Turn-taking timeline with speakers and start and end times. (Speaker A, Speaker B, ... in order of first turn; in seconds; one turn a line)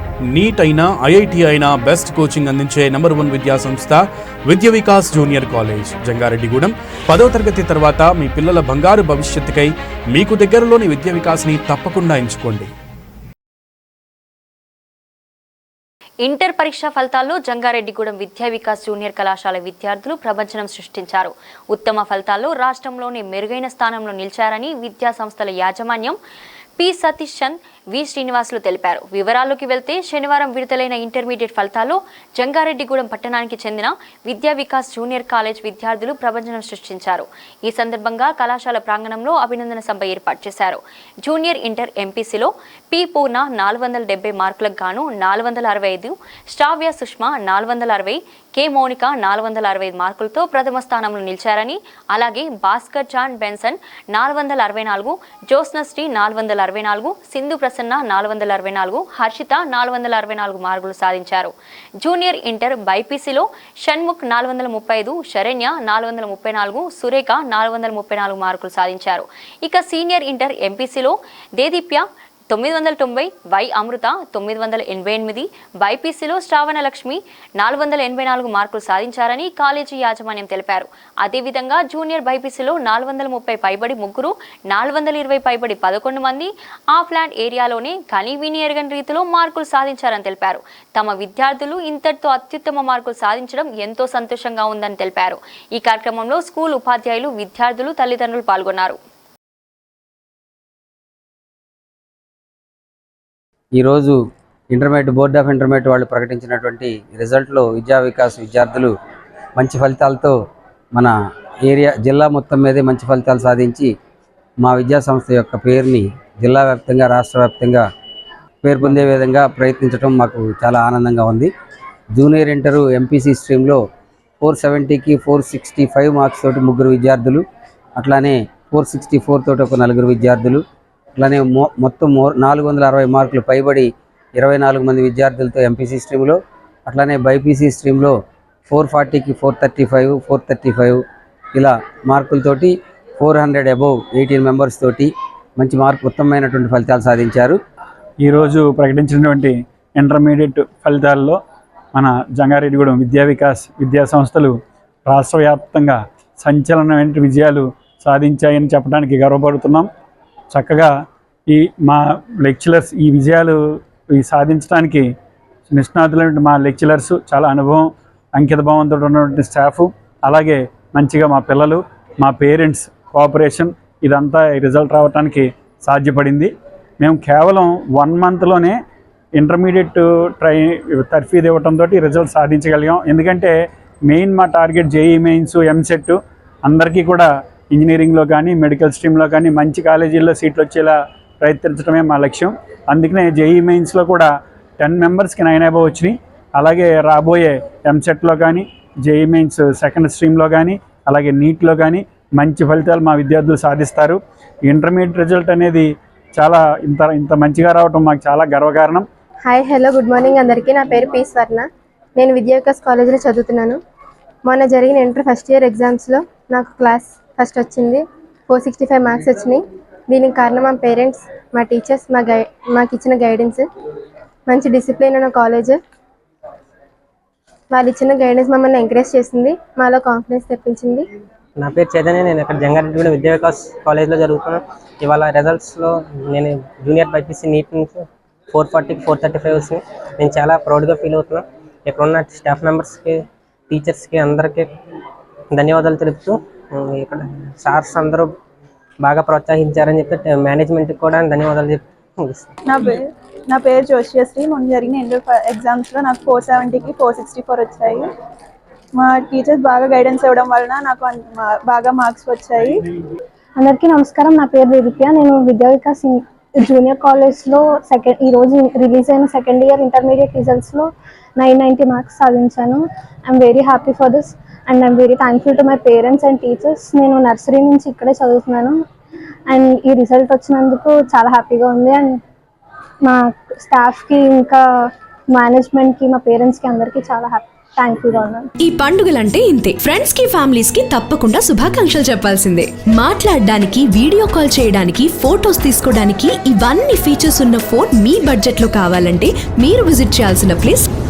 Speaker A: 0.3-6.7
Speaker B: 2.9-3.3
Speaker B: 6.1-6.5
Speaker B: 7.1-9.6
Speaker A: 7.9-8.7
Speaker B: 10.2-12.5
Speaker A: 11.4-12.6
Speaker B: 16.2-26.2
Speaker B: 26.8-99.0
Speaker C: 103.7-104.2
Speaker C: 104.7-108.9
Speaker C: 109.6-110.3
Speaker C: 111.7-113.9
Speaker C: 114.6-117.8
Speaker C: 118.6-121.5
Speaker C: 122.1-123.8
Speaker C: 124.4-127.4
Speaker C: 128.0-130.6
Speaker C: 131.2-138.2
Speaker C: 138.7-141.0
Speaker C: 141.5-147.6
Speaker D: 148.2-151.4
Speaker D: 151.9-154.5
Speaker D: 155.1-159.9
Speaker D: 160.5-160.9
Speaker D: 161.5-163.6
Speaker D: 164.1-165.0
Speaker D: 165.7-167.8
Speaker D: 168.4-176.5
Speaker D: 177.0-178.7
Speaker D: 179.3-183.5
Speaker D: 184.1-194.3
Speaker D: 194.8-205.8
Speaker D: 206.4-209.1
Speaker E: 209.4-213.8
Speaker E: 214.4-223.7
Speaker E: 224.5-225.8
Speaker E: 227.7-231.1
Speaker F: 231.6-244.7
Speaker F: 245.5-248.3
Speaker F: 249.0-252.5
Speaker G: 252.7-253.0
Speaker G: 253.5-258.1
Speaker G: 259.0-262.8
Speaker H: 263.6-266.1
Speaker H: 266.6-270.8
Speaker H: 271.4-272.8
Speaker H: 273.3-278.7
Speaker H: 279.5-282.1
Speaker H: 283.7-284.6
Speaker H: 285.4-288.4
Speaker I: 288.6-300.9